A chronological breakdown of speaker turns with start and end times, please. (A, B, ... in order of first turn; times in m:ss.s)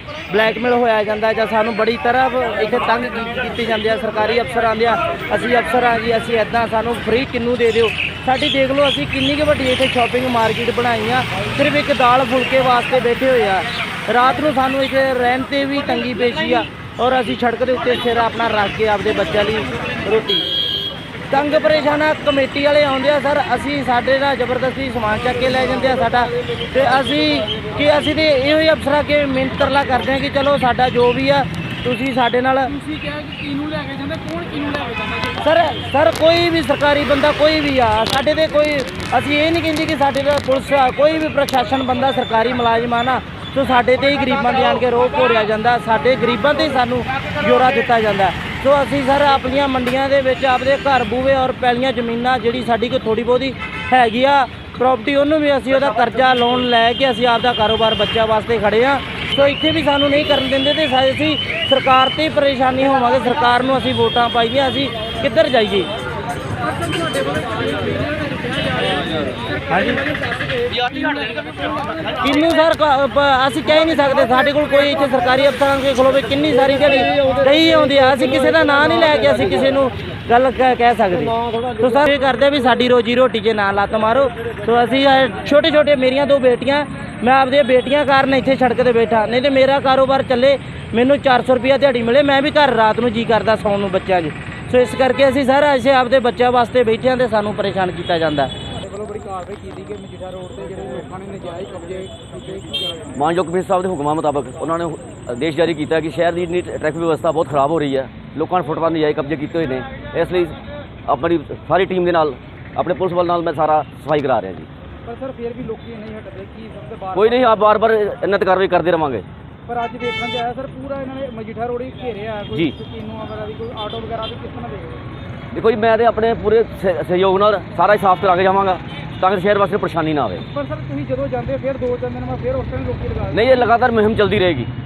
0:00.3-0:20.5 A
0:21.3-0:32.8 A
0:32.7-0:35.4 B
0:35.4-1:05.9 A
1:06.6-1:12.2 B
1:09.7-1:10.0 A
1:12.2-1:38.5 A
1:38.8-1:43.2 B
1:43.2-1:50.6 C
1:51.1-1:54.7 C
1:55.1-1:57.7 B
1:57.2-1:59.2 C
1:59.7-2:05.0 B
2:05.5-2:10.4 C
2:10.5-2:13.7 B
2:13.3-2:14.7 C